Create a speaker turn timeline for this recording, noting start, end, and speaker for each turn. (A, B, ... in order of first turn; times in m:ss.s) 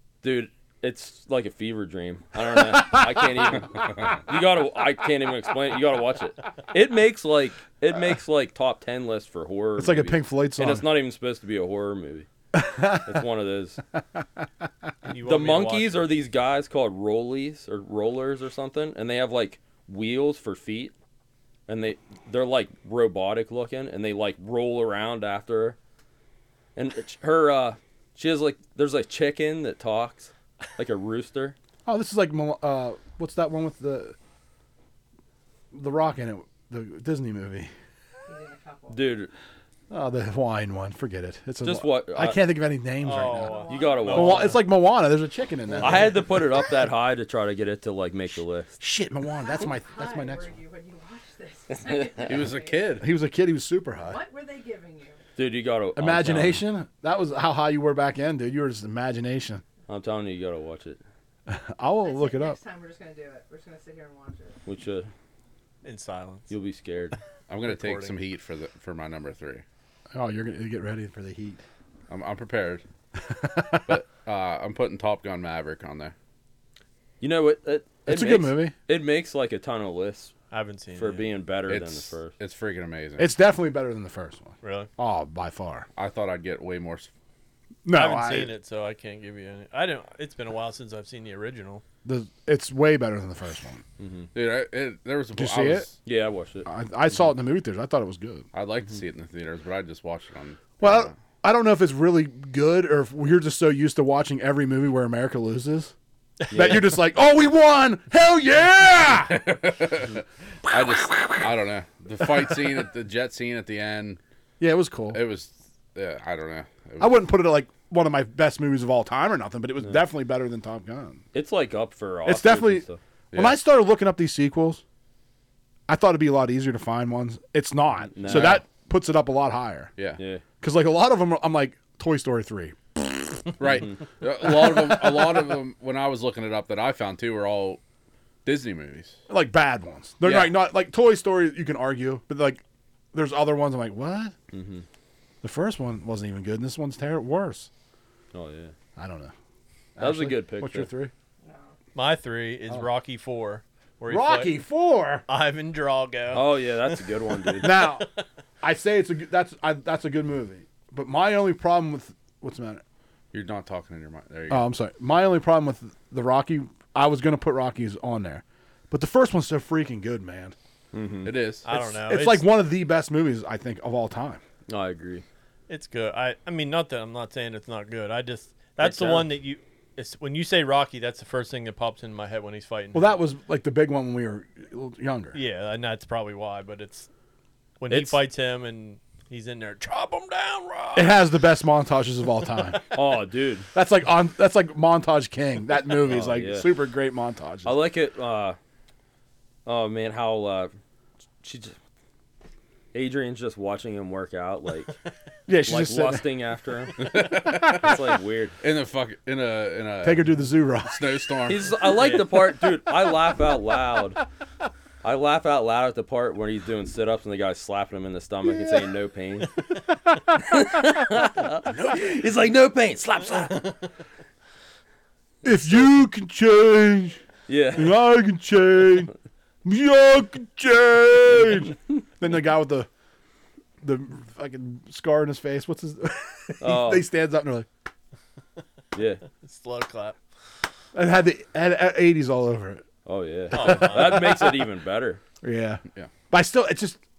0:00.2-0:12.3 A
0:02.6-0:03.3 B
0:09.8-0:10.9 B
0:12.6-0:13.2 B
0:13.0-0:13.8 A
0:15.0-0:16.1 C
0:15.2-0:20.9 A
0:21.7-0:25.8 A
0:26.8-0:31.6 A
0:31.9-0:34.2 B
0:35.7-0:37.7 B
0:38.3-0:39.0 D
0:38.9-0:39.3 A
0:39.9-0:46.2 B
0:41.6-0:42.4 A
0:43.0-0:44.6 C
0:43.4-0:44.3 D
0:43.7-0:44.6 A
0:45.8-0:48.8 A
0:48.8-0:50.5 B
0:49.4-0:52.9 D
0:51.8-0:52.2 A
0:52.2-0:53.1 E
0:53.0-0:54.2 B
0:54.0-0:55.2 D
0:55.4-0:56.6 A
0:56.0-0:59.6 B
0:59.9-1:01.0 A
1:01.5-1:02.6 B
1:02.0-1:04.6 D
1:04.6-1:05.1 A
1:05.8-1:06.5 C
1:06.5-1:07.2 A
1:07.5-1:09.6 E
1:07.6-1:08.2 C
1:10.1-1:11.6 B
1:12.1-1:12.8 E
1:13.2-1:13.9 B
1:13.9-1:16.1 E
1:17.2-1:20.3 A
1:18.1-1:18.7 B
1:20.5-1:21.2 C
1:21.0-1:22.3 A
1:21.7-1:23.3 E
1:23.2-1:25.9 B
1:24.6-1:24.9 C
1:26.0-1:27.1 E
1:27.8-1:28.5 B
1:27.9-1:31.8 C
1:32.0-1:33.8 B
1:34.0-1:34.3 A
1:34.3-1:35.9 E
1:35.4-1:35.9 B
1:36.0-1:36.7 A
1:36.6-1:38.4 B
1:38.5-1:41.1 E
1:40.8-1:45.9 B
1:46.5-1:46.8 C
1:46.5-1:46.9 A
1:46.5-1:49.4 B
1:49.2-1:54.2 E
1:50.8-1:51.5 B
1:54.6-1:55.2 B
1:55.1-1:57.2 E
1:57.0-2:01.2 B
2:01.3-2:03.0 A
2:02.2-2:04.8 B
2:03.3-2:03.6 E
2:05.9-2:09.9 B
2:08.1-2:08.6 A
2:08.2-2:08.6 E
2:10.2-2:10.4 A
2:10.6-2:13.5 B
2:13.6-2:17.8 E
2:14.7-2:15.2 B
2:18.4-2:19.2 E
2:19.3-2:22.6 B
2:20.2-2:20.6 E
2:23.1-2:24.3 B
2:24.5-2:24.8 A
2:25.4-2:27.7 B
2:28.3-2:28.7 A
2:29.0-2:29.3 B
2:30.0-2:31.1 B
2:30.0-2:30.9 A
2:31.9-2:34.6 C
2:34.1-2:35.2 B
2:35.3-2:38.1 C
2:36.3-2:37.7 A
2:37.6-2:38.1 B
2:38.6-2:42.8 B
2:43.3-2:44.6 E
2:44.5-2:50.6 B
2:50.9-2:51.4 A
2:51.2-2:51.7 E
2:51.6-2:52.5 C
2:51.7-2:54.4 B
2:54.7-2:55.2 A
2:55.7-3:03.2 C
2:58.8-2:59.3 A
3:02.9-3:05.4 B
3:05.3-3:07.1 C
3:07.8-3:11.2 C
3:07.9-3:08.2 A
3:10.9-3:12.8 B
3:12.9-3:13.7 A
3:13.7-3:17.8 B
3:16.0-3:16.8 A
3:17.6-3:18.6 A
3:19.6-3:20.7 A
3:21.4-3:21.8 A
3:22.9-3:24.9 A
3:25.5-3:26.3 B
3:25.6-3:28.6 A
3:27.0-3:28.0 E
3:28.6-3:30.3 E
3:30.0-3:31.0 B
3:30.8-3:31.7 E
3:31.4-3:34.2 A
3:31.8-3:32.3 C
3:35.0-3:39.5 A
3:40.4-3:43.7 A
3:45.4-3:47.2 B
3:45.5-3:45.9 A
3:47.5-3:48.0 A
3:47.8-3:49.1 B
3:49.6-3:52.9 B
3:53.8-3:57.7 B
3:56.6-3:57.1 A
3:58.9-3:59.2 A
3:59.4-4:00.2 C
4:00.9-4:02.8 B
4:03.1-4:05.2 A
4:03.5-4:04.5 C
4:03.6-4:04.1 B
4:05.4-4:07.0 B